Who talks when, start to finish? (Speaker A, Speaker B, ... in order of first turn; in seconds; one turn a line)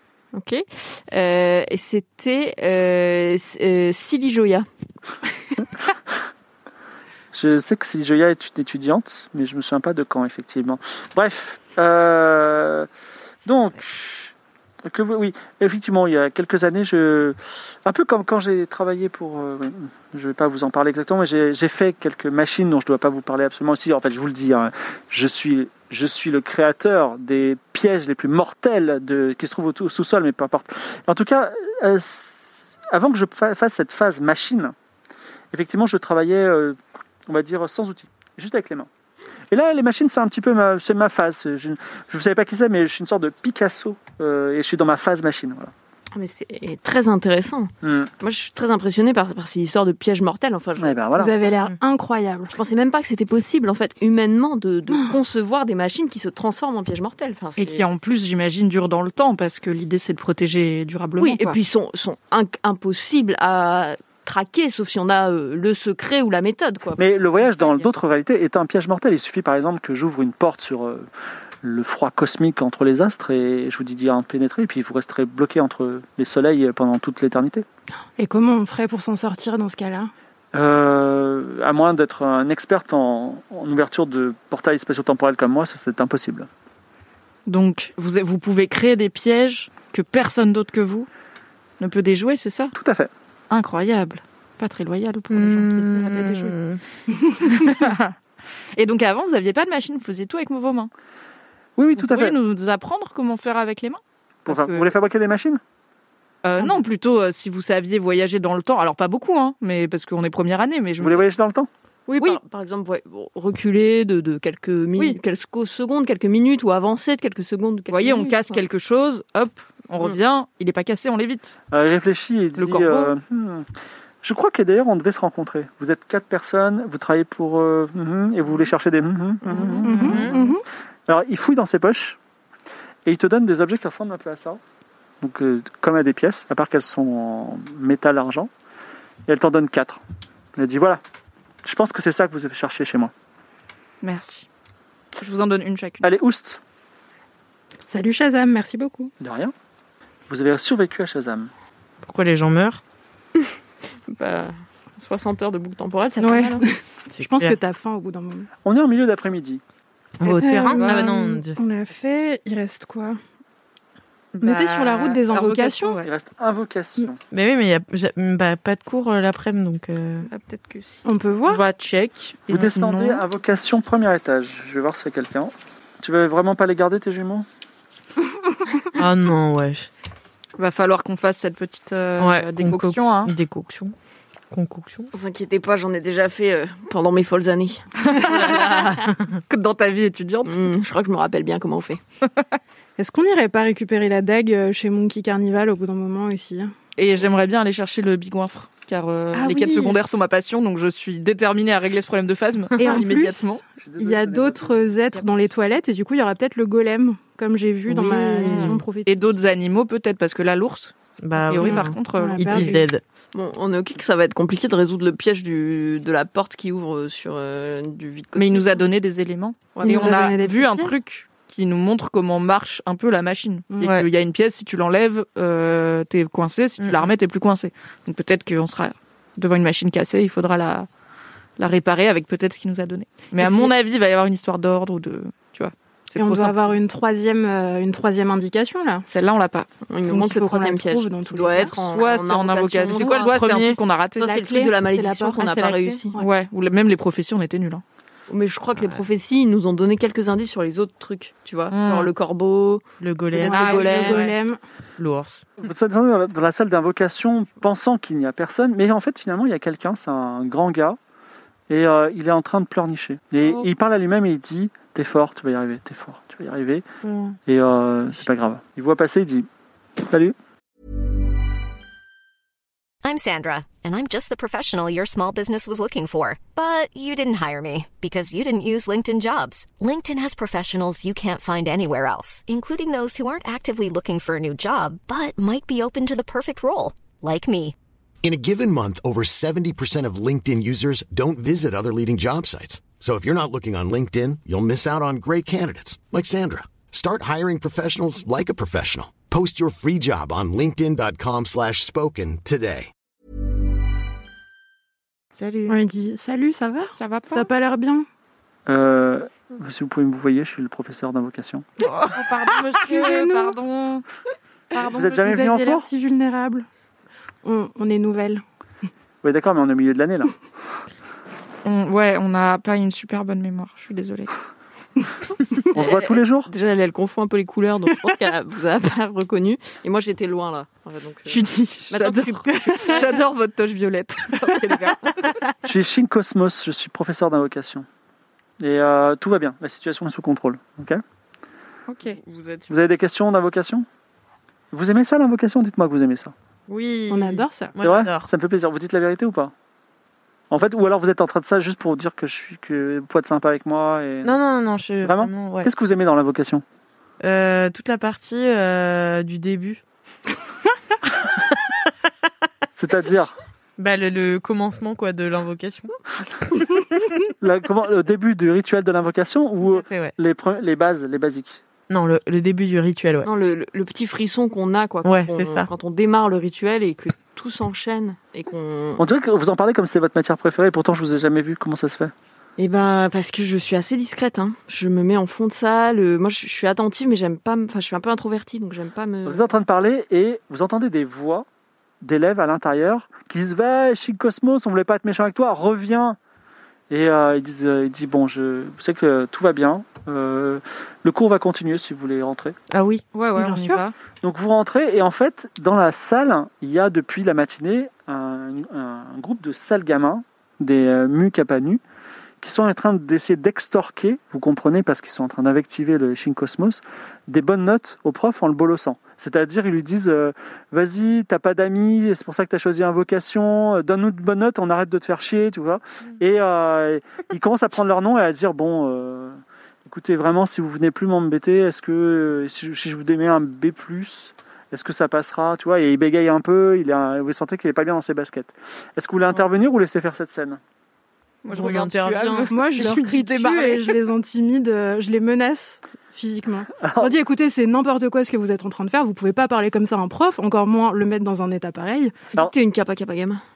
Speaker A: 0.3-4.7
Speaker B: 7.3-12.9
Speaker B: 13.4-14.3
Speaker B: 14.8-34.7
Speaker B: 35.5-38.9
Speaker B: 39.5-45.7
Speaker A: 46.1-51.0
Speaker B: 47.8-48.1
Speaker B: 50.8-51.4
Speaker C: 51.1-52.5
Speaker A: 52.5-57.8
Speaker D: 57.6-61.6
Speaker A: 61.2-67.9
Speaker B: 67.0-71.1
Speaker B: 71.6-77.7
Speaker C: 78.2-80.1
Speaker B: 80.5-86.5
Speaker D: 87.5-91.1
Speaker D: 91.8-92.7
Speaker B: 92.7-93.1
Speaker D: 93.5-96.6
Speaker E: 95.3-96.8
Speaker D: 97.4-98.1
Speaker D: 98.8-100.9
Speaker B: 101.8-102.3
Speaker D: 102.0-104.9
Speaker B: 104.5-105.6
Speaker D: 106.4-111.3
Speaker B: 111.0-111.7
Speaker A: 112.1-118.6
Speaker D: 117.9-121.5
Speaker B: 121.7-123.7
Speaker D: 122.6-123.1
Speaker B: 124.2-130.0
Speaker D: 129.5-130.4
Speaker C: 129.8-130.6
Speaker E: 129.9-130.5
Speaker B: 131.1-132.2
Speaker B: 133.0-134.6
Speaker B: 135.2-138.5
Speaker B: 139.3-140.0
Speaker B: 140.6-141.0
Speaker B: 141.6-143.1
Speaker D: 144.0-144.5
Speaker D: 145.2-146.1
Speaker B: 146.0-146.6
Speaker C: 147.9-149.1
Speaker B: 149.2-149.5
Speaker B: 150.3-151.5
Speaker E: 152.0-152.8
Speaker A: 154.1-156.7
Speaker C: 156.2-158.5
Speaker E: 157.1-157.6
Speaker B: 158.6-159.6
Speaker E: 160.2-161.6
Speaker C: 160.2-163.2
Speaker D: 160.7-161.1
Speaker D: 164.3-166.1
Speaker C: 164.4-166.0
Speaker B: 166.0-167.2
Speaker E: 167.3-170.3
Speaker D: 170.3-173.2
Speaker C: 171.0-171.6
Speaker B: 172.5-177.5
Speaker E: 178.9-179.9
Speaker D: 180.6-183.3
Speaker E: 182.2-183.9
Speaker E: 184.5-185.1
Speaker A: 185.1-189.0
Speaker D: 188.0-188.9
Speaker E: 188.2-189.4
Speaker D: 189.5-190.6
Speaker A: 190.4-192.0
Speaker C: 193.0-196.7
Speaker D: 196.9-203.6
Speaker C: 199.3-200.0
Speaker C: 202.8-209.1
Speaker B: 203.8-204.9
Speaker E: 207.9-208.8
Speaker D: 208.4-212.8
Speaker E: 211.2-213.0
Speaker C: 211.6-212.9
Speaker A: 213.3-218.8
Speaker D: 218.3-230.9
Speaker A: 219.7-220.2
Speaker C: 219.8-220.9
Speaker C: 223.7-224.0
Speaker E: 226.8-227.1
Speaker D: 231.6-236.8
Speaker C: 233.4-233.7
Speaker C: 236.2-239.1
Speaker D: 239.1-239.7
Speaker A: 239.9-243.4
Speaker C: 240.1-241.8
Speaker D: 241.4-244.7
Speaker E: 242.9-243.8
Speaker A: 244.2-246.2
Speaker C: 244.8-246.3
Speaker E: 245.5-246.0
Speaker D: 246.2-247.8
Speaker A: 248.3-252.8
Speaker E: 248.8-249.0
Speaker D: 251.7-252.1
Speaker E: 253.0-254.3
Speaker C: 253.3-254.6
Speaker A: 253.3-254.2
Speaker D: 253.5-254.3
Speaker E: 255.0-255.5
Speaker B: 255.6-261.0
Speaker B: 261.7-266.9
Speaker E: 267.0-267.4
Speaker B: 267.5-269.5
Speaker B: 270.0-270.3
Speaker F: 273.0-287.7
Speaker G: 288.2-302.9
Speaker C: 305.7-308.1
Speaker D: 307.0-307.5
Speaker B: 308.7-311.6
Speaker D: 311.8-314.0
Speaker C: 312.1-313.6
Speaker D: 314.7-315.0
Speaker C: 314.7-316.7
Speaker B: 314.9-315.9
Speaker C: 317.4-318.4
Speaker B: 319.2-320.3
Speaker D: 321.6-324.3
Speaker B: 325.7-326.5
Speaker A: 325.8-333.2
Speaker D: 331.3-335.2
Speaker C: 332.8-333.0
Speaker B: 335.6-337.9
Speaker B: 338.6-341.0
Speaker D: 341.9-342.2
Speaker A: 342.3-342.6
Speaker B: 342.7-343.9
Speaker B: 344.7-346.3
Speaker E: 346.7-348.3
Speaker C: 347.1-347.7
Speaker B: 347.8-349.5
Speaker B: 350.5-354.4
Speaker E: 354.2-355.7
Speaker B: 355.0-356.6
Speaker E: 357.2-359.8
Speaker B: 362.8-363.3
Speaker E: 363.8-365.9
Speaker B: 367.4-371.6
Speaker E: 369.6-370.1
Speaker E: 371.9-373.3
Speaker A: 373.2-379.1
Speaker E: 375.0-375.7
Speaker B: 379.0-382.1
Speaker A: 382.6-389.4
Speaker B: 389.2-391.4
Speaker B: 392.0-396.2
Speaker B: 396.9-402.6
Speaker E: 402.7-403.0
Speaker D: 403.1-403.9
Speaker C: 403.4-403.8
Speaker B: 404.2-411.8
Speaker B: 412.4-440.6
Speaker D: 441.4-444.1
Speaker E: 441.5-442.5
Speaker C: 442.5-452.3
Speaker B: 446.8-447.1
Speaker A: 452.4-453.4